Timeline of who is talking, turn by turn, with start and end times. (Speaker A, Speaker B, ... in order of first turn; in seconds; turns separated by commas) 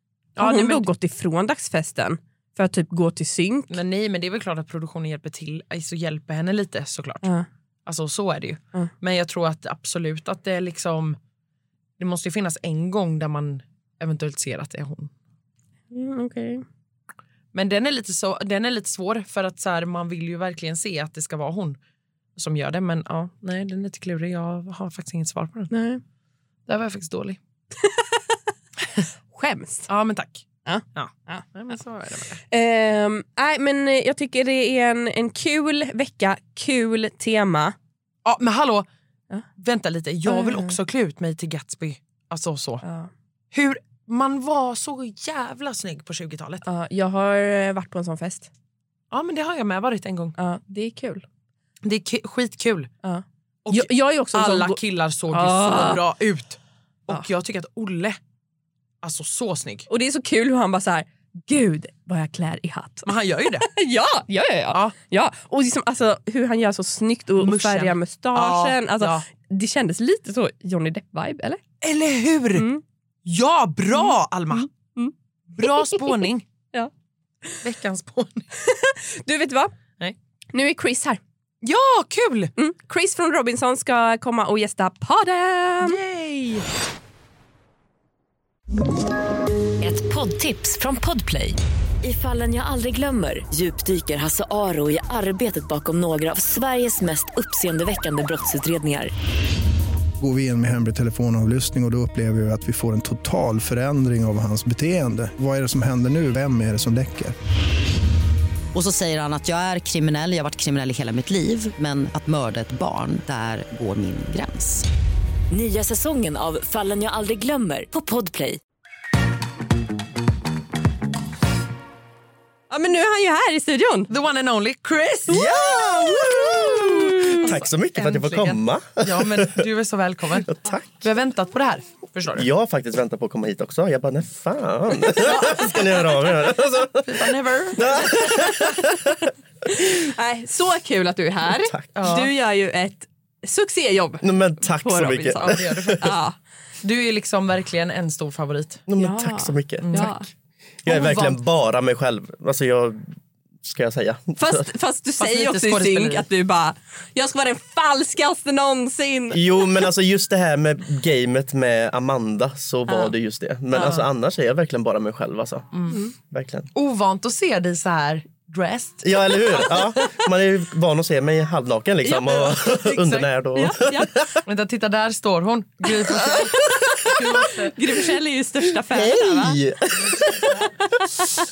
Speaker A: 0.4-0.9, Speaker B: 0.4-3.8, Speaker A: 3.7-7.3, Speaker A: 7.8-11.2, Speaker A: 12.0-15.1, Speaker B: 15.9-16.6, Speaker A: 17.5-21.8, Speaker A: 22.4-25.7, Speaker B: 25.7-26.0, Speaker A: 26.7-27.4, Speaker B: 27.8-28.4, Speaker B: 29.3-29.9, Speaker A: 29.9-32.4, Speaker B: 30.6-31.4, Speaker B: 32.5-37.8, Speaker A: 38.2-38.9, Speaker A: 39.6-42.8, Speaker B: 40.2-40.8, Speaker B: 42.8-43.1, Speaker A: 43.5-46.6, Speaker B: 46.6-48.5, Speaker A: 49.1-50.4, Speaker B: 50.4-51.2, Speaker A: 51.8-52.9, Speaker B: 53.0-54.8, Speaker A: 53.6-58.2, Speaker B: 55.3-56.0, Speaker A: 59.0-59.9, Speaker B: 59.9-71.6, Speaker A: 63.0-63.7, Speaker A: 67.4-69.2, Speaker A: 71.8-72.7, Speaker B: 72.5-72.8, Speaker A: 73.2-74.7, Speaker B: 73.9-76.9, Speaker A: 75.6-76.4, Speaker A: 77.6-78.5, Speaker B: 78.6-79.7, Speaker B: 80.5-81.2, Speaker A: 81.6-82.5, Speaker B: 82.6-86.0, Speaker A: 85.8-86.7, Speaker C: 89.8-99.1, Speaker D: 100.2-107.3, Speaker E: 108.7-114.8, Speaker C: 115.5-118.6, Speaker B: 122.7-124.1, Speaker A: 124.1-125.5, Speaker F: 125.3-129.7, Speaker B: 125.8-127.5, Speaker A: 127.2-132.5, Speaker F: 130.4-131.1, Speaker F: 132.3-139.2, Speaker A: 135.1-136.2, Speaker A: 137.0-138.6, Speaker B: 139.7-146.3, Speaker F: 141.4-142.2, Speaker A: 141.9-142.3, Speaker F: 144.2-146.0, Speaker A: 145.3-146.2, Speaker A: 146.8-148.8, Speaker F: 148.9-150.2, Speaker B: 148.9-150.3, Speaker A: 149.8-150.1, Speaker F: 150.8-153.1, Speaker A: 150.9-151.3, Speaker F: 153.6-154.7, Speaker B: 154.4-159.8, Speaker A: 155.2-156.2, Speaker F: 159.3-165.7, Speaker B: 162.9-163.1, Speaker B: 163.7-164.0, Speaker A: 165.7-166.0, Speaker F: 166.3-166.7, Speaker A: 166.7-170.0, Speaker F: 169.0-174.4, Speaker B: 172.0-172.6, Speaker A: 172.4-173.3, Speaker B: 173.5-174.2, Speaker A: 174.4-177.8, Speaker B: 176.1-176.5, Speaker B: 177.0-179.6, Speaker F: 178.7-180.6